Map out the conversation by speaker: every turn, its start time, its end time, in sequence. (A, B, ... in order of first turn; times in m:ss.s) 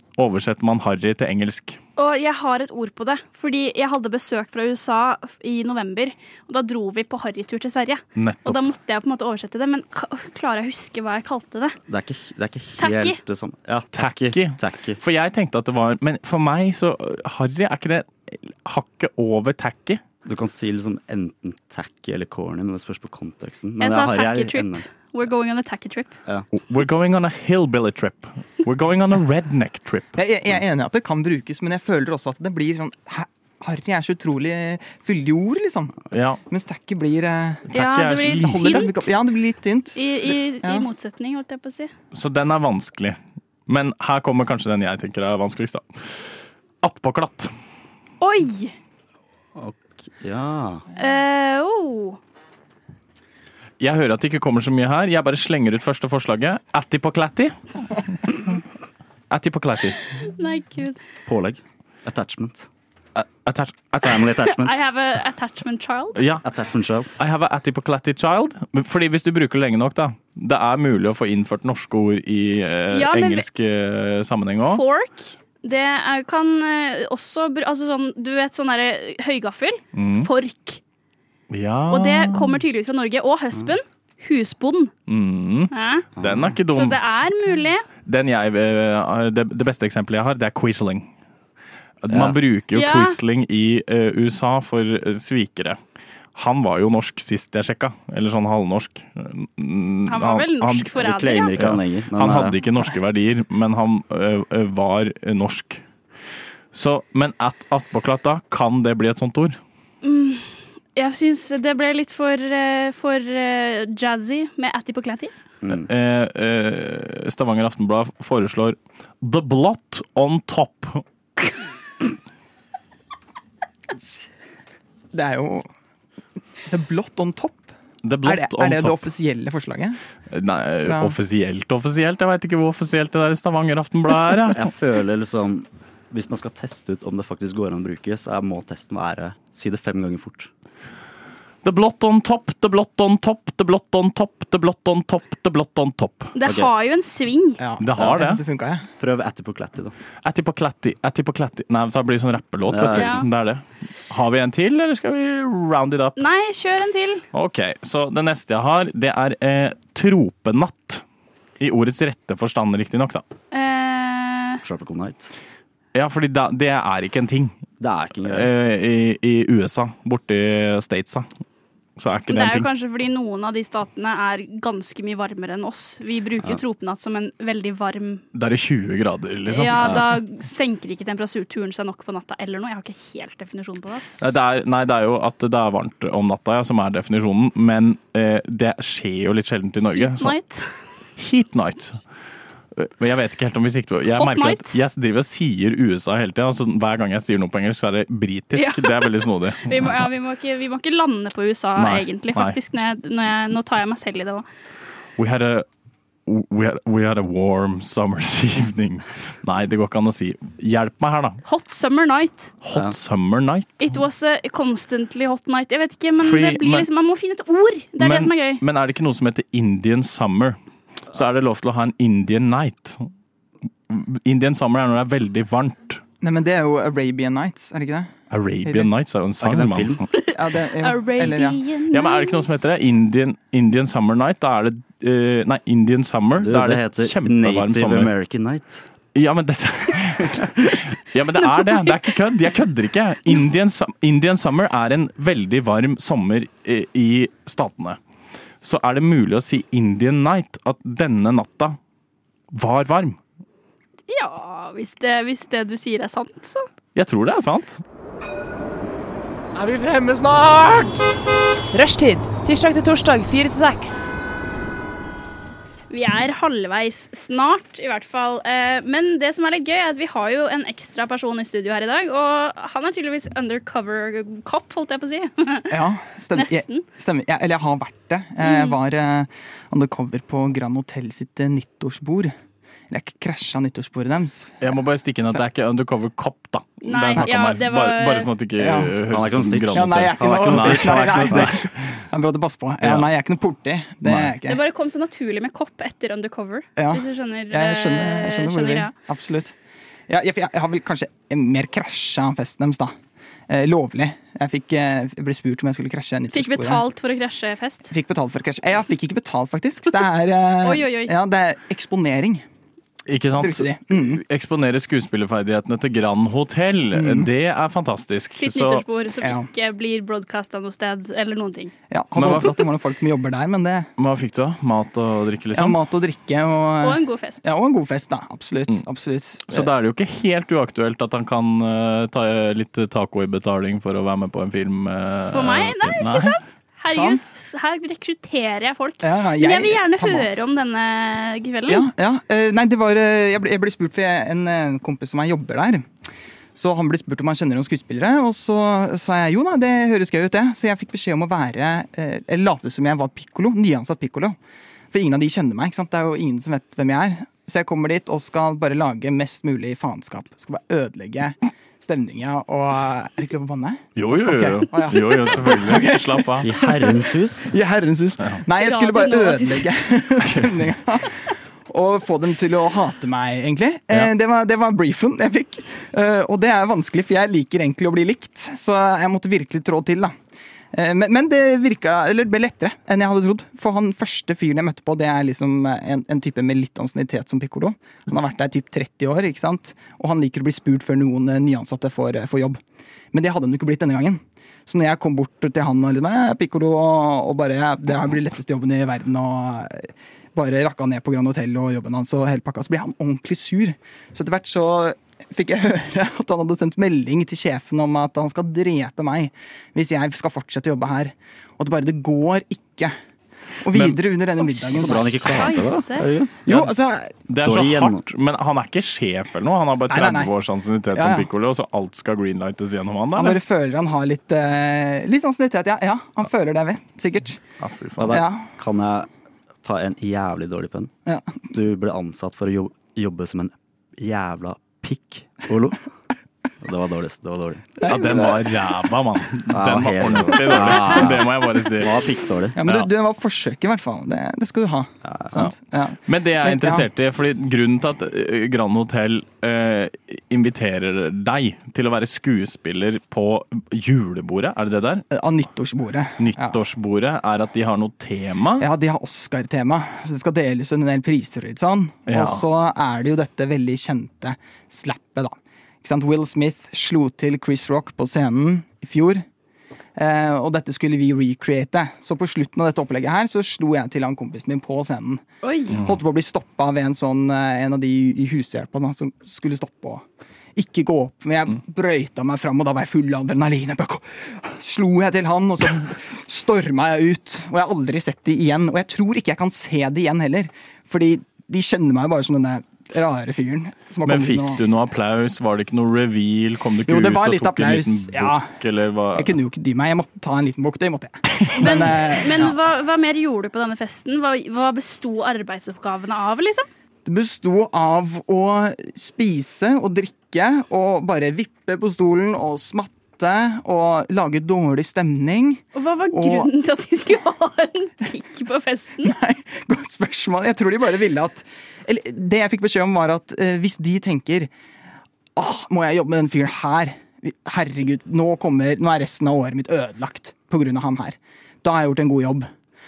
0:00.2-0:01.8 A
0:02.0-0:11.8 B
0:08.2-0:08.6 A
0:11.9-0:15.0 C
0:12.8-0:13.2 B
0:13.9-0:20.0 A
0:20.2-0:24.8 C
0:23.8-0:26.2 B
0:26.5-0:30.2 A
0:30.2-0:37.6 D
0:36.1-0:36.4 A
0:37.7-0:39.0 A
0:37.7-0:39.0 B
0:38.4-0:40.0 D
0:40.0-0:41.9 B
0:40.6-0:40.9 D
0:42.1-0:43.2 A
0:43.7-0:47.5 A
0:48.2-0:48.7 B
0:49.6-0:50.9 C
0:51.0-0:52.2 B
0:53.8-0:57.6 A
0:59.3-1:00.0 A
1:00.2-1:01.0 B
1:01.3-1:02.7 C
1:03.2-1:04.4 A
1:04.0-1:04.8 C
1:04.4-1:06.2 B
1:06.2-1:06.4 A
1:06.4-1:07.1 C
1:07.2-1:14.8 A
1:12.9-1:13.5 B
1:14.6-1:20.8 B
1:20.0-1:20.3 A
1:21.5-1:22.6 A
1:21.9-1:24.9 B
1:25.1-1:27.0 A
1:25.7-1:26.1 B
1:26.2-1:26.6 C
1:26.7-1:27.9 B
1:28.0-1:31.1 A
1:32.0-1:35.8 A
1:32.1-1:32.4 C
1:32.7-1:33.2 B
1:36.4-1:40.9 A
1:40.1-1:41.6 B
1:41.0-1:42.6 C
1:41.6-1:45.8 A
1:46.7-1:49.6 A
1:50.0-1:55.3 B
1:55.6-1:55.9 C
1:55.7-2:01.0 A
2:05.1-2:05.7 D
2:06.7-2:07.7 D
2:08.0-2:09.1 A
2:08.2-2:10.0 D
2:10.3-2:14.6 A
2:10.8-2:11.2 D
2:14.4-2:20.5 C
2:21.6-2:26.3 A
2:26.4-2:27.6 B
2:26.4-2:26.7 C
2:27.6-2:28.9 D
2:27.8-2:28.4 A
2:29.0-2:30.0 C
2:30.2-2:36.2 A
2:32.7-2:33.3 C
2:32.9-2:33.2 B
2:36.2-2:37.2 B
2:37.3-2:41.0 A
2:41.6-2:43.2 A
2:43.5-2:44.6 B
2:44.6-2:45.3 C
2:46.0-2:47.6 A
2:47.8-2:48.5 C
2:48.2-2:51.3 A
2:52.0-2:52.7 A
2:52.3-2:58.2 B
2:58.3-3:00.2 A
2:59.5-3:04.3 B
3:04.2-3:10.4 A
3:09.8-3:10.7 B
3:11.2-3:12.0 A
3:12.8-3:20.1 A
3:14.1-3:14.8 B
3:18.6-3:24.4 B
3:21.8-3:22.6 A
3:25.2-3:25.7 A
3:26.3-3:31.4 A
3:31.4-3:32.5 B
3:32.6-3:34.0 A
3:33.8-3:38.6 B
3:36.2-3:36.9 A
3:38.0-3:40.6 A
3:41.1-3:43.1 A
3:43.9-3:46.0 A
3:46.2-3:48.1 D
3:48.3-3:50.1 A
3:48.6-3:48.9 D
3:49.4-3:50.0 C
3:50.1-3:52.6 B
3:50.3-3:51.6 D
3:51.9-3:58.1 A
3:56.4-3:58.9 C
3:59.2-4:08.0 A
4:08.6-4:11.8 A
4:12.5-4:13.2 A
4:14.1-4:16.7 B
4:17.0-4:17.8 A
4:19.6-4:20.9 E
4:21.7-4:24.2 E
4:25.9-4:35.8 B
4:35.7-4:42.3 D
4:36.3-4:36.8 B
4:38.4-4:38.8 B
4:42.9-4:44.5 D
4:44.6-4:51.6 A
4:46.8-4:48.3 B
4:48.6-4:49.0 D
4:49.1-4:51.6 C
4:49.7-4:54.6 D
4:52.8-4:53.1 A
4:54.4-4:58.9 B
4:56.8-4:59.5 D
5:00.1-5:02.9 D
5:03.5-5:06.8 D
5:06.3-5:07.9 B
5:07.9-5:12.4 D
5:10.6-5:11.1 B
5:13.1-5:18.8 A
5:13.4-5:14.2 D
5:16.9-5:17.3 D
5:18.4-5:21.7 B
5:19.2-5:19.5 D
5:21.9-5:23.9 D
5:22.2-5:22.6 A
5:24.0-5:25.8 A
5:25.5-5:29.7 D
5:26.8-5:27.5 B
5:29.5-5:36.4 A
5:35.3-5:41.9 B
5:36.9-5:37.2 D
5:39.0-5:40.4 D
5:41.7-5:45.9 D
5:46.6-5:54.4 D
5:54.9-6:20.1 D
6:04.0-6:06.5 A
6:06.4-6:07.6 C
6:08.6-6:09.7 B
6:10.2-6:10.6 A
6:20.7-6:32.6 D
6:33.1-6:52.9 D
6:53.6-6:55.1 D
6:53.7-6:54.0 A
6:54.6-6:56.4 C
6:55.2-6:56.1 B
6:56.4-6:57.1 D
6:56.5-6:56.8 A
6:57.3-7:03.4 A
6:57.4-6:58.0 C
6:59.9-7:00.3 D
7:01.0-7:01.3 D
7:03.2-7:07.4 D
7:07.6-7:08.2 A
7:08.0-7:09.1 C
7:08.1-7:08.5 D
7:09.6-7:10.9 C
7:11.1-7:11.4 D
7:11.5-7:15.8 C
7:16.6-7:18.3 C
7:17.8-7:18.4 D
7:17.8-7:22.0 A
7:19.5-7:22.6 C
7:22.6-7:26.9 D
7:22.6-7:22.9 A
7:25.0-7:25.4 C
7:26.1-7:35.1 A
7:35.1-7:36.6 D
7:36.2-7:38.7 A
7:38.6-7:49.2 D
7:42.1-7:42.4 A
7:50.0-8:00.0 D
7:55.4-7:55.8 B
8:00.6-8:14.6 D
8:14.0-8:19.4 A
8:16.9-8:18.5 D
8:19.2-8:22.6 D
8:21.6-8:26.7 B
8:27.0-8:36.5 D
8:35.8-8:39.2 B
8:39.0-8:44.5 D
8:45.4-8:52.5 D